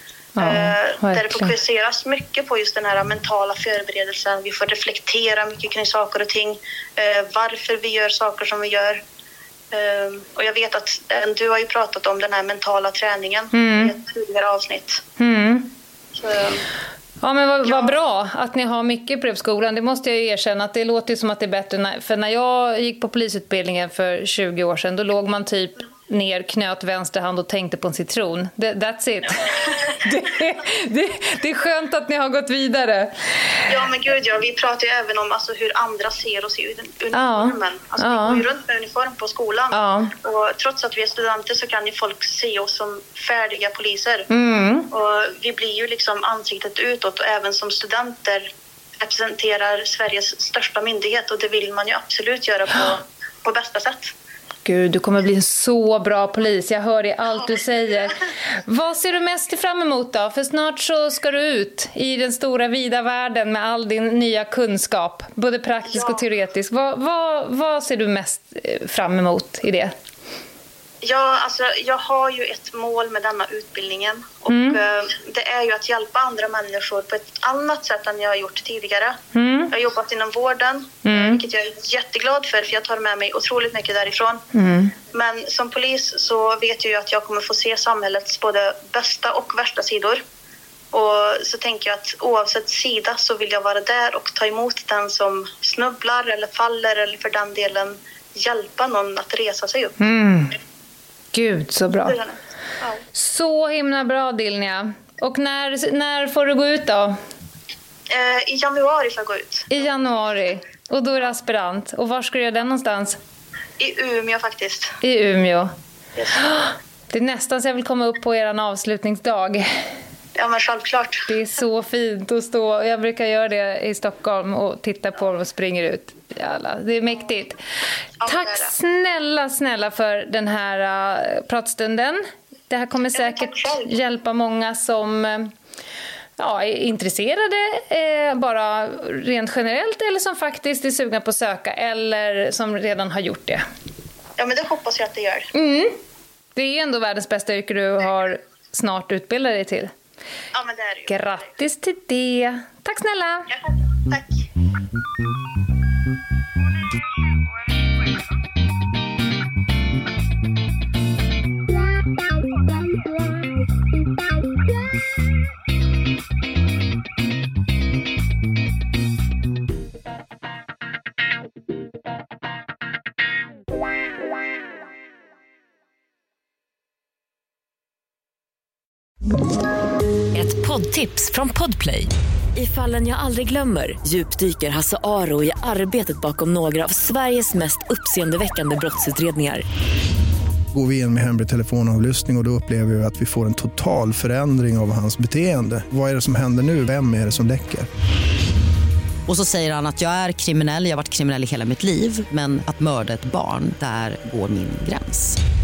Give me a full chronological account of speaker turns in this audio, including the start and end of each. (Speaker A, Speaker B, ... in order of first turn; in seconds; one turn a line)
Speaker A: 0.4-1.5
Speaker B: 0.4-9.0
Speaker B: 9.7-15.0
Speaker A: 13.5-13.9
Speaker A: 15.2-15.7
Speaker B: 16.1-16.6
Speaker A: 17.2-33.7
Speaker B: 17.6-18.0
Speaker B: 29.6-30.0
Speaker B: 33.7-44.3
Speaker A: 37.1-38.5
Speaker A: 39.7-40.1
Speaker A: 44.3-44.9
Speaker B: 44.9-54.1
Speaker A: 54.6-69.9
Speaker B: 65.9-66.2
Speaker B: 71.0-79.2
Speaker A: 74.5-74.8
Speaker A: 79.3-79.7
Speaker B: 79.7-84.4
Speaker A: 81.0-81.4
Speaker A: 84.5-84.9
Speaker B: 85.1-90.2
Speaker B: 90.9-100.0
Speaker A: 100.0-100.6
Speaker A: 101.3-102.2
Speaker B: 102.0-103.0
Speaker A: 103.1-107.2
Speaker B: 108.1-109.7
Speaker A: 109.7-113.2
Speaker B: 113.8-115.0
Speaker A: 115.0-115.7
Speaker B: 116.2-116.5
Speaker A: 116.3-119.8
Speaker B: 120.4-121.2
Speaker A: 121.3-127.6
Speaker B: 128.2-128.7
Speaker A: 128.2-135.5
Speaker B: 133.1-133.9
Speaker A: 136.4-143.7
Speaker B: 144.4-145.5
Speaker A: 145.5-146.0
Speaker A: 146.6-149.9
Speaker B: 150.5-151.4
Speaker A: 151.1-153.5
Speaker B: 153.5-154.5
Speaker C: 180.3-189.6
Speaker D: 190.7-197.9
Speaker E: 199.3-205.4